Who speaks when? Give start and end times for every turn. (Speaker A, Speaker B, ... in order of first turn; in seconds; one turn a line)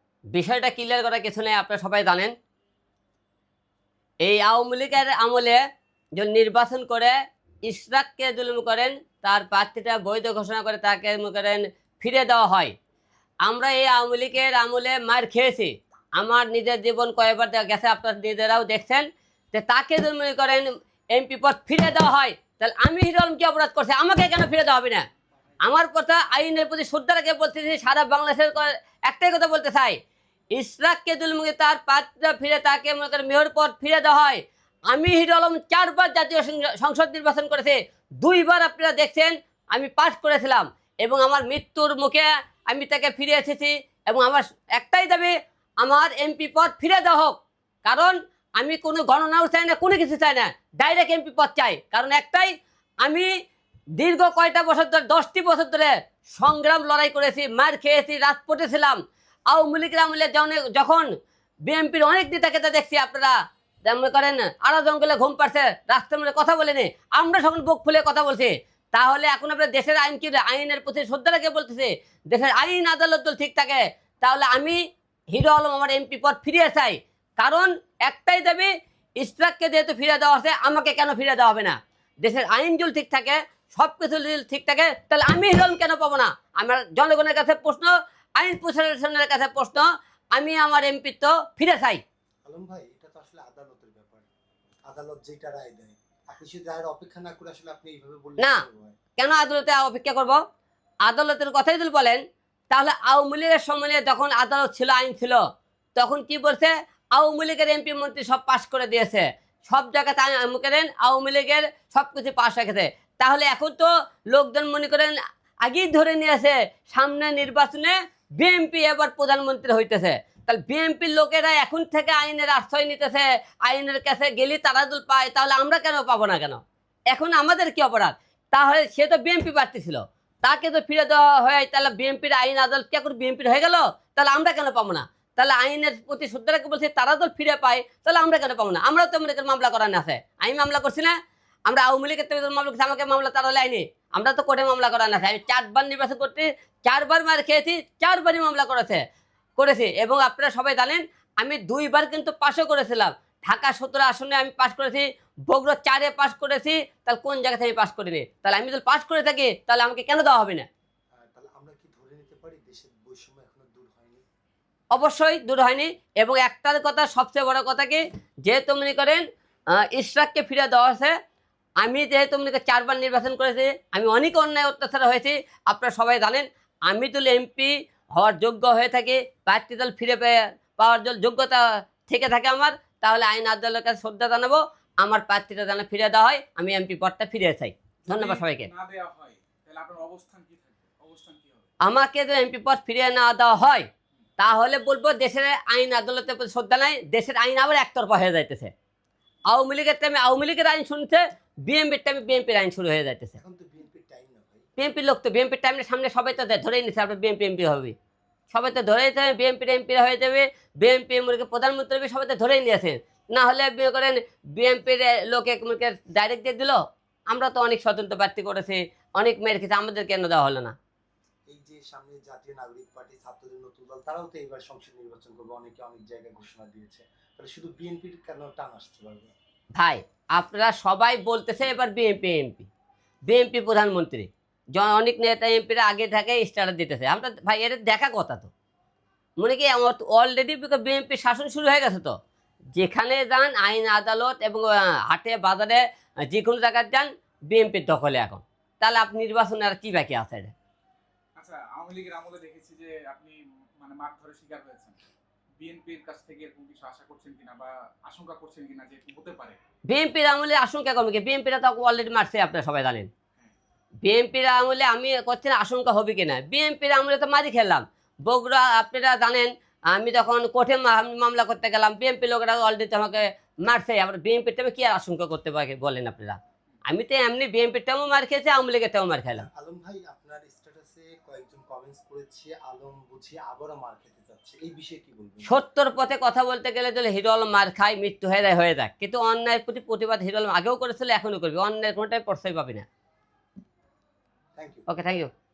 Speaker A: 0.3-2.3
Speaker A: 4.2-5.6
Speaker A: 6.2-7.1
Speaker A: 7.7-12.7
Speaker A: 13.4-25.1
Speaker A: 25.6-30.0
Speaker A: 30.6-53.3
Speaker A: 54.0-59.0
Speaker A: 59.5-61.1
Speaker A: 61.7-74.8
Speaker A: 75.3-92.0
Speaker B: 92.5-94.3
Speaker B: 94.9-99.0
Speaker A: 99.2-100.4
Speaker A: 101.1-105.4
Speaker A: 106.0-126.6
Speaker A: 127.1-141.2
Speaker A: 141.7-149.0
Speaker A: 149.6-160.7
Speaker B: 161.2-164.2
Speaker A: 164.9-169.2
Speaker A: 169.8-171.1
Speaker A: 171.8-188.7
Speaker C: 188.0-191.7
Speaker A: 191.8-193.9
Speaker A: 194.4-198.7
Speaker A: 199.5-203.3
Speaker B: 203.3-204.7
Speaker A: 204.8-207.9
Speaker A: 208.5-216.8
Speaker A: 217.3-220.8
Speaker B: 221.5-229.3
Speaker A: 229.8-232.7
Speaker A: 233.3-238.5
Speaker A: 239.4-242.1
Speaker A: 242.8-250.5
Speaker C: 251.3-255.0
Speaker C: 255.6-259.6
Speaker A: 259.9-263.1
Speaker A: 264.0-279.4
Speaker B: 279.4-285.5
Speaker A: 285.4-292.9
Speaker B: 294.6-294.9
Speaker A: 294.9-295.3